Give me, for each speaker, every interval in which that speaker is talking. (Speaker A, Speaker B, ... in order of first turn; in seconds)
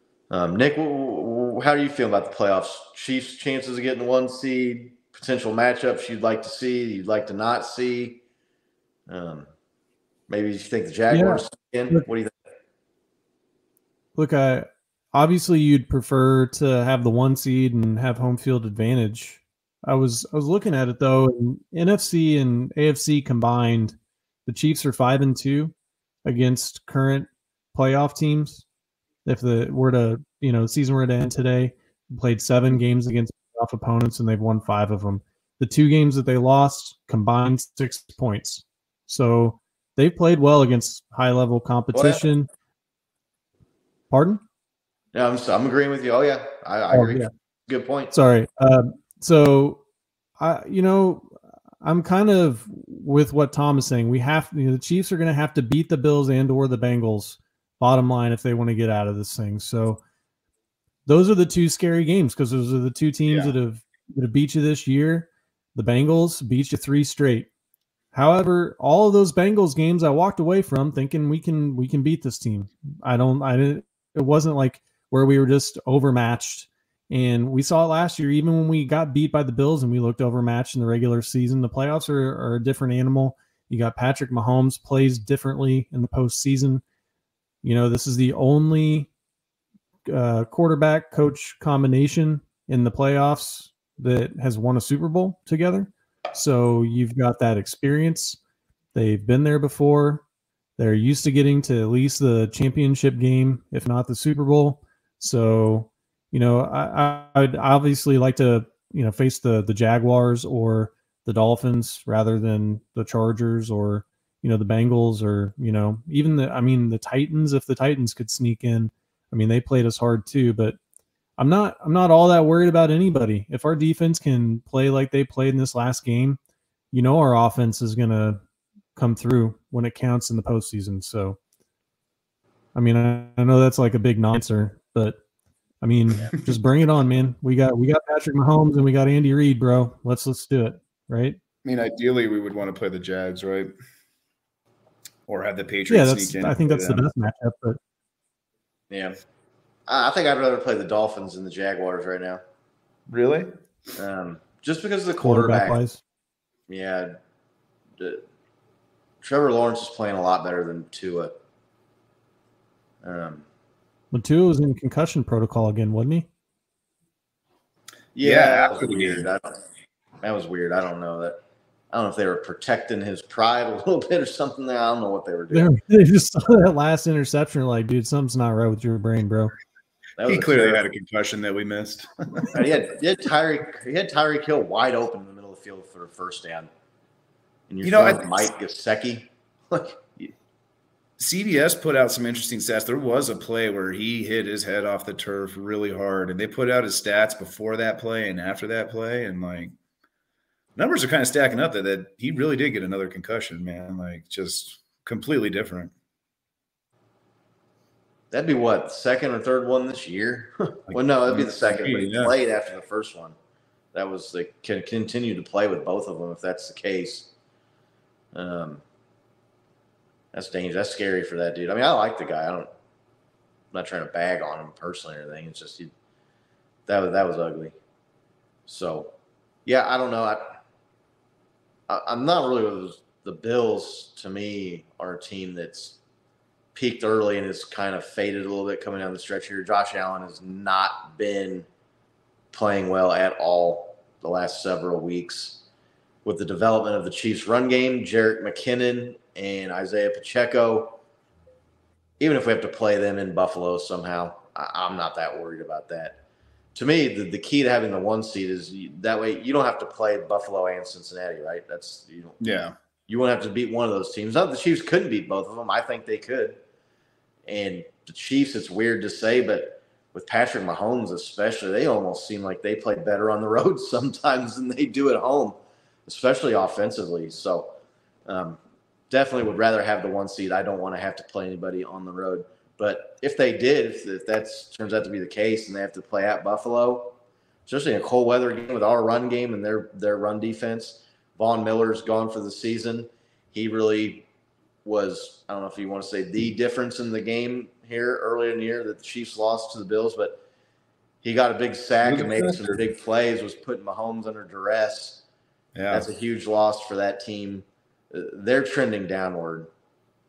Speaker A: 0.3-8.2, 9.1-9.5, 10.3-12.3, 41.9-42.2, 45.1-48.1, 148.9-149.2, 149.9-152.4, 154.0-155.8, 156.7-157.1, 159.2-161.3, 163.0-163.4, 168.2-169.6, 170.2-171.4, 171.9-175.7, 180.2-180.9, 182.5-186.7, 187.7-190.3, 208.3-213.3, 213.9-217.3, 218.3-218.8, 220.3-222.7, 223.7-225.9, 226.9-227.8, 228.7-229.1, 229.7-230.6, 231.9-236.0, 236.7-241.7, 242.5-245.6, 246.2-251.0, 252.2-256.2, 256.8-262.4, 263.1-266.6, 267.5-277.7, 278.3-278.6, 279.1-294.3, 294.8-300.4, 301.2-305.2, 305.9-309.7
Speaker B: 11.1-12.0, 14.2-25.7, 26.2-28.6, 29.2-42.5, 44.1-44.4, 46.9-47.3, 48.1-49.8, 50.4-51.3, 51.8-60.0, 61.1-67.5, 68.1-86.8, 87.6-89.1, 90.1-98.4, 98.9-100.2, 100.8-120.8, 121.4-126.4, 126.9-128.4, 129.0-131.4, 132.8-135.2, 135.8-141.4, 145.9-147.8, 155.2-156.0, 164.1-166.3, 175.5-179.6
Speaker C: 63.3-63.5, 141.6-143.7, 145.3-147.1, 153.1-153.5, 168.2-169.3, 180.2-182.6, 187.8-188.5, 191.2-199.8, 200.8-205.9, 210.9-212.3, 262.4-262.8, 302.0-302.8, 305.8-306.1